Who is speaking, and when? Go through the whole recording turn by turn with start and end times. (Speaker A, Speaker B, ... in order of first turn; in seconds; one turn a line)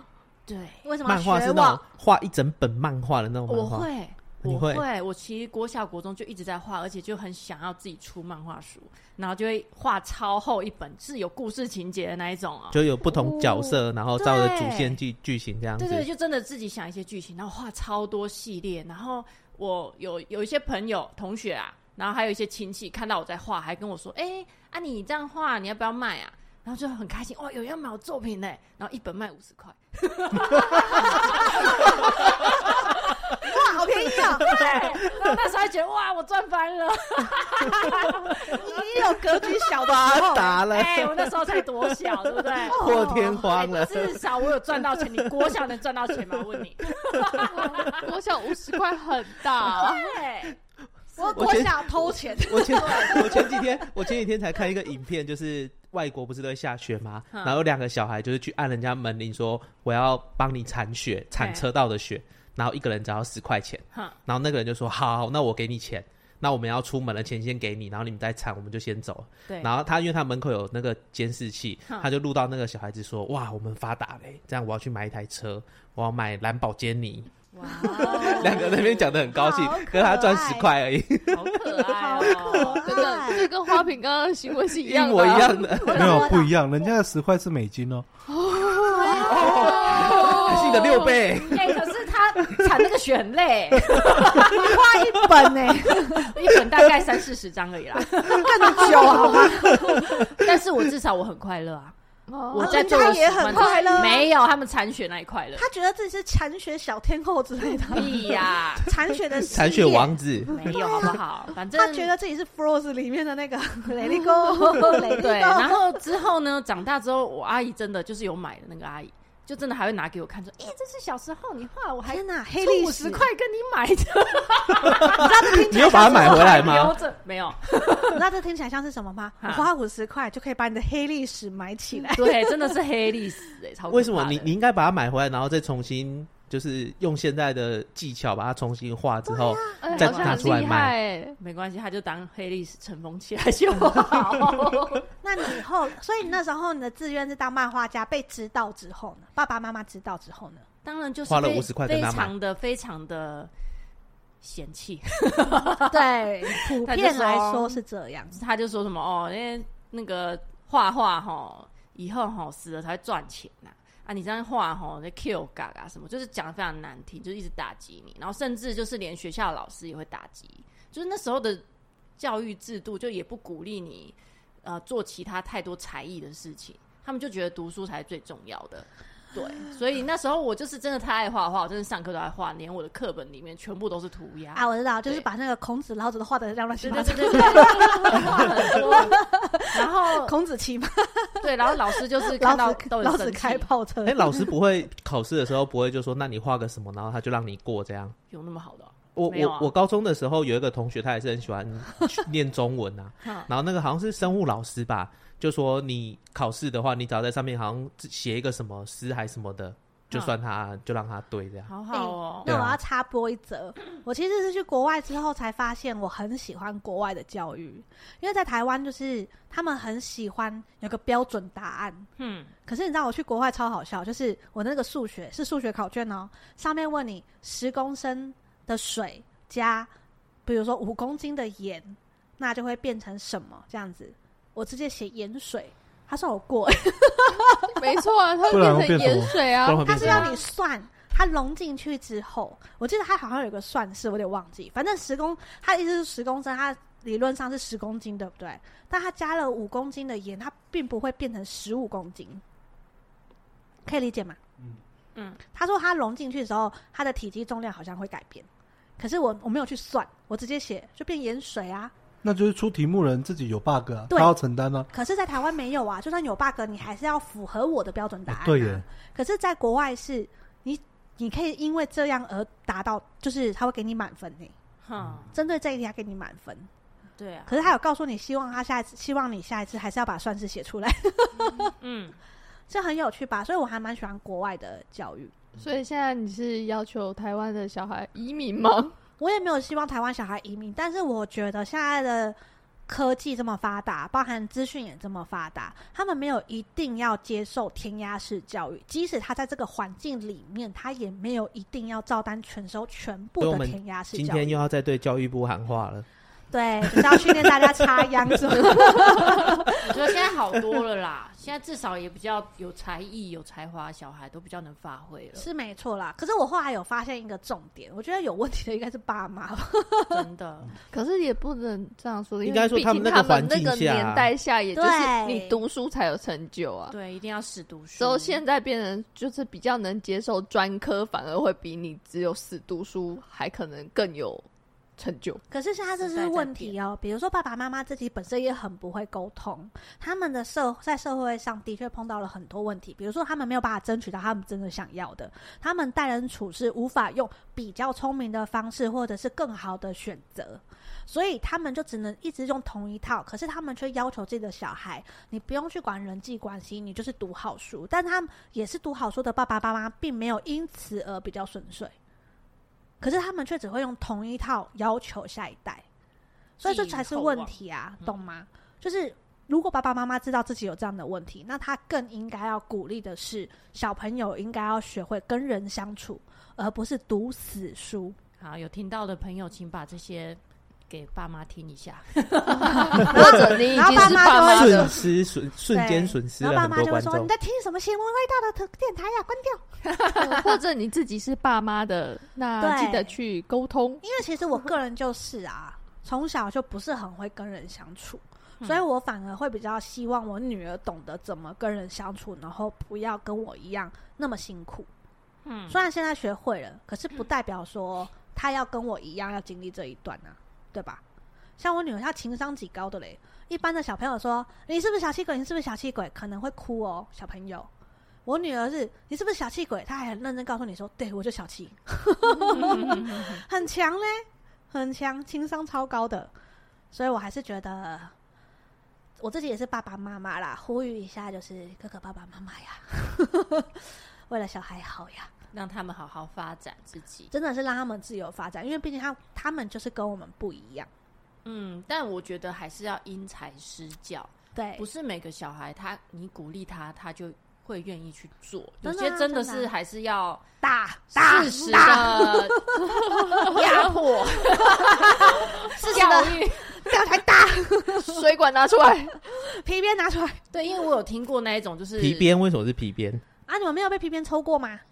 Speaker A: 0.5-0.9
Speaker B: 0.8-1.8
Speaker C: 1.1-3.9
Speaker A: 3.5-13.7
Speaker C: 4.4-4.8
Speaker C: 12.7-16.1
Speaker A: 14.2-15.0
Speaker A: 15.8-39.1
Speaker B: 31.2-31.9
Speaker B: 33.4-34.8
Speaker B: 38.4-40.6
Speaker C: 39.8-41.4
Speaker A: 40.4-48.0
Speaker C: 42.6-44.2
Speaker B: 42.6-43.5
Speaker D: 47.5-50.2
Speaker A: 49.7-50.6
Speaker A: 51.1-51.7
Speaker B: 51.2-53.5
Speaker C: 51.3-77.3
Speaker A: 52.7-53.5
Speaker A: 57.3-57.6
Speaker A: 61.4-61.7
Speaker A: 63.9-64.2
Speaker A: 77.5-79.1
Speaker B: 77.7-80.7
Speaker C: 77.9-82.7
Speaker A: 81.3-83.0
Speaker B: 82.0-83.5
Speaker D: 82.8-85.9
Speaker C: 84.8-86.3
Speaker B: 85.8-86.5
Speaker E: 85.9-88.1
Speaker D: 88.3-91.1
Speaker B: 88.9-90.2
Speaker C: 89.2-91.9
Speaker A: 89.4-94.8
Speaker C: 93.9-94.8
Speaker B: 94.4-96.4
Speaker A: 96.1-102.0
Speaker B: 98.3-100.3
Speaker D: 102.3-104.1
Speaker A: 102.5-105.7
Speaker B: 102.6-104.3
Speaker B: 105.6-111.2
Speaker A: 107.9-109.0
Speaker C: 109.5-111.0
Speaker A: 110.5-112.1
Speaker B: 111.7-115.8
Speaker A: 115.1-128.2
Speaker B: 122.0-123.3
Speaker C: 124.9-127.0
Speaker B: 125.1-127.0
Speaker B: 128.1-132.8
Speaker A: 129.4-129.7
Speaker A: 132.1-134.5
Speaker C: 133.9-141.0
Speaker B: 139.2-139.9
Speaker D: 139.8-141.4
Speaker A: 139.9-140.7
Speaker A: 141.4-145.1
Speaker B: 145.2-150.7
Speaker A: 150.8-153.5
Speaker C: 151.3-152.3
Speaker A: 154.4-157.8
Speaker B: 155.9-158.4
Speaker A: 158.3-171.6
Speaker A: 172.2-185.2
Speaker B: 184.6-194.5
Speaker A: 186.8-190.4
Speaker A: 191.4-193.7
Speaker C: 194.1-198.2
Speaker A: 198.3-199.7
Speaker C: 199.2-211.7
Speaker A: 203.2-203.5
Speaker A: 211.7-212.5
Speaker B: 211.9-222.1
Speaker C: 212.4-212.8
Speaker A: 222.2-222.5
Speaker B: 222.7-229.9
Speaker B: 230.5-237.9
Speaker D: 237.8-240.2
Speaker E: 238.5-239.4
Speaker C: 239.5-240.4
Speaker B: 239.7-252.4
Speaker B: 253.9-254.4
Speaker A: 255.2-255.4
Speaker B: 255.5-258.5
Speaker B: 259.0-261.9
Speaker E: 262.2-264.9
Speaker B: 264.1-264.4
Speaker B: 264.9-274.6
Speaker E: 268.3-268.8
Speaker A: 274.8-275.3
Speaker B: 275.3-276.7
Speaker A: 277.2-277.7
Speaker B: 277.5-281.8
Speaker A: 281.6-282.2
Speaker B: 282.7-285.4
Speaker D: 285.6-289.0
Speaker B: 289.2-292.4
Speaker B: 292.9-304.6
Speaker C: 303.4-306.1
Speaker B: 306.5-309.9
Speaker C: 306.9-307.8
Speaker D: 308.8-309.0
Speaker A: 309.8-315.5
Speaker B: 315.4-320.3
Speaker A: 320.1-320.8
Speaker D: 320.9-326.9
Speaker C: 322.4-324.3
Speaker B: 324.7-325.6
Speaker A: 326.9-328.4
Speaker D: 328.0-334.5
Speaker D: 335.0-335.4
Speaker B: 335.5-361.9
Speaker A: 336.0-336.8
Speaker B: 363.0-365.9
Speaker B: 366.6-378.2
Speaker A: 366.6-368.2
Speaker A: 378.4-383.1
Speaker D: 382.6-384.9
Speaker C: 383.0-387.3
Speaker B: 383.1-385.1
Speaker B: 385.7-389.6
Speaker A: 389.8-390.4
Speaker D: 390.2-394.0
Speaker B: 392.6-393.2
Speaker B: 394.0-404.9
Speaker A: 405.4-405.8
Speaker B: 405.7-411.0
Speaker B: 411.6-417.7
Speaker B: 418.2-426.3
Speaker A: 422.5-423.4
Speaker B: 426.9-428.1
Speaker B: 429.2-435.3
Speaker A: 435.5-437.3
Speaker B: 437.3-440.9
Speaker A: 441.4-450.5
Speaker B: 444.6-444.9
Speaker B: 448.8-449.7
Speaker B: 450.6-453.7
Speaker A: 451.1-452.8
Speaker D: 451.8-452.2
Speaker D: 453.1-453.6
Speaker A: 453.4-457.0
Speaker B: 454.6-458.3
Speaker D: 457.9-459.2
Speaker B: 459.3-460.4
Speaker A: 460.5-462.3
Speaker C: 462.0-463.2
Speaker B: 463.5-464.8